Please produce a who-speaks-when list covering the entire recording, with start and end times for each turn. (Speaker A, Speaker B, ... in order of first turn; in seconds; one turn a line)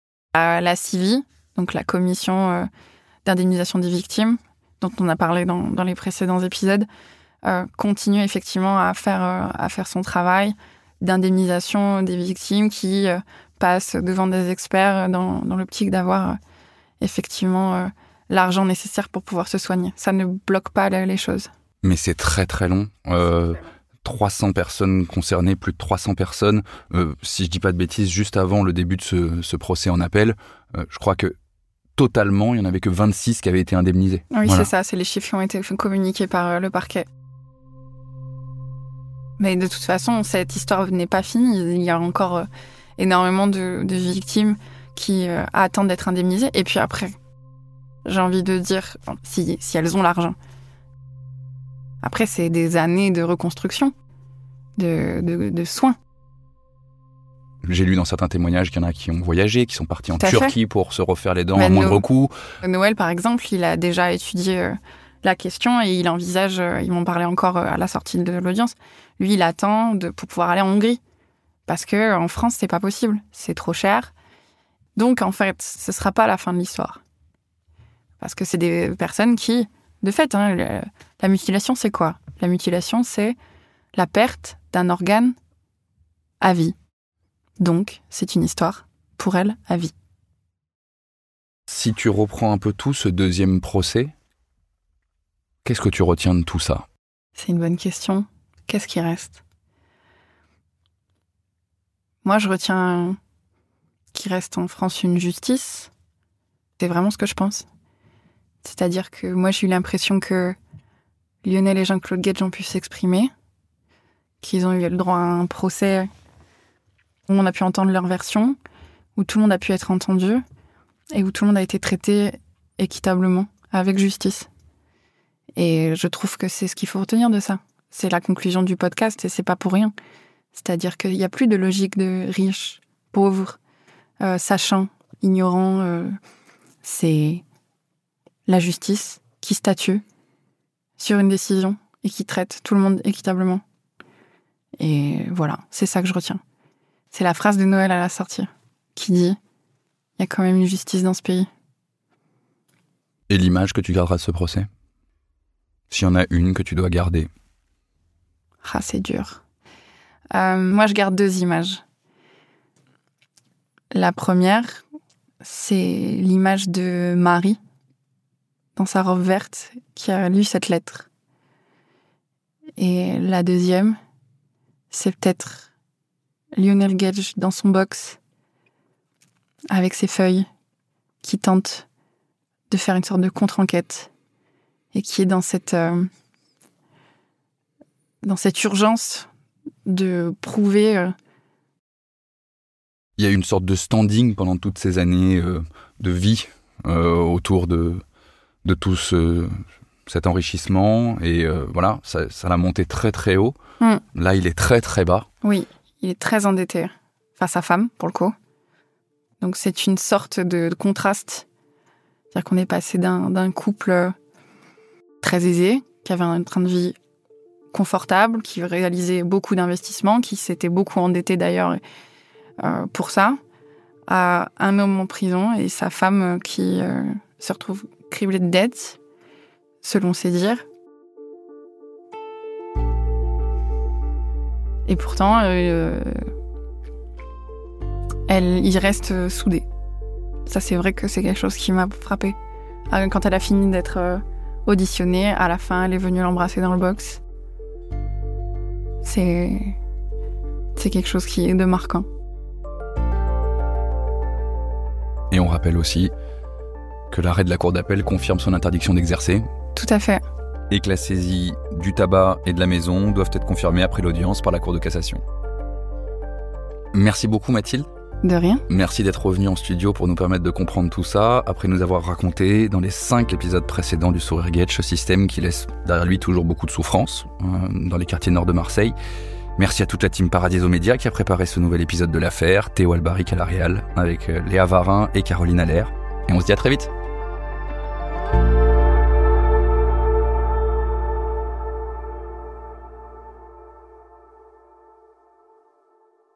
Speaker A: 0.3-2.7
Speaker A: 3.2-6.9
Speaker A: 7.4-16.4
Speaker A: 17.0-21.5
Speaker B: 21.8-31.3
Speaker B: 32.0-34.7
Speaker A: 34.3-37.0
Speaker A: 39.4-47.1
Speaker A: 48.0-50.4
Speaker A: 52.0-53.9
Speaker A: 54.8-56.0
Speaker B: 57.6-62.3
Speaker A: 60.1-60.5
Speaker A: 61.5-62.0
Speaker A: 62.6-71.0
Speaker A: 71.7-74.1
Speaker A: 75.0-77.0
Speaker A: 78.2-83.3
Speaker A: 83.9-85.3
Speaker A: 86.4-86.7
Speaker A: 87.6-89.9
Speaker B: 91.7-94.1
Speaker B: 95.6-96.8
Speaker A: 97.3-99.4
Speaker A: 102.2-103.2
Speaker A: 104.1-105.9
Speaker A: 106.8-107.7
Speaker A: 108.6-110.6
Speaker A: 111.4-113.3
Speaker A: 114.4-116.1
Speaker A: 117.3-118.6
Speaker A: 119.2-120.4
Speaker A: 121.1-124.5
Speaker A: 125.5-129.9
Speaker A: 130.5-133.6
Speaker A: 134.2-136.1
Speaker A: 136.8-137.4
Speaker A: 138.5-140.0
Speaker A: 141.0-143.6
Speaker A: 144.8-146.4
Speaker A: 147.1-149.4
Speaker A: 150.2-151.5
Speaker B: 153.3-154.7
Speaker B: 155.9-157.3
Speaker A: 158.6-159.4
Speaker A: 160.3-161.8
Speaker A: 163.9-164.8
Speaker A: 165.4-167.6
Speaker A: 168.8-171.1
Speaker A: 172.8-174.0
Speaker A: 174.9-175.7
Speaker A: 176.6-178.2
Speaker A: 179.7-180.5
Speaker A: 181.2-181.8
Speaker A: 182.7-184.1
Speaker A: 184.9-186.1
Speaker A: 188.2-189.3
Speaker A: 189.8-191.1
Speaker B: 193.2-198.0
Speaker B: 198.6-199.5
Speaker B: 200.1-203.6
Speaker B: 204.1-205.3
Speaker A: 205.4-208.3
Speaker A: 209.4-211.4
Speaker A: 212.3-214.1
Speaker A: 215.2-216.9
Speaker A: 217.7-221.8
Speaker A: 222.6-223.4
Speaker A: 224.1-229.0
Speaker A: 229.8-230.6
Speaker A: 234.9-236.2
Speaker A: 238.3-239.7
Speaker A: 240.4-242.3
Speaker A: 242.9-247.2
Speaker A: 249.0-249.8
Speaker A: 250.7-252.1
Speaker B: 255.3-256.1
Speaker B: 257.1-259.4
Speaker A: 259.7-260.2
Speaker B: 260.7-265.2
Speaker B: 266.9-267.9
Speaker A: 268.2-268.6
Speaker B: 268.7-278.9
Speaker B: 279.6-286.9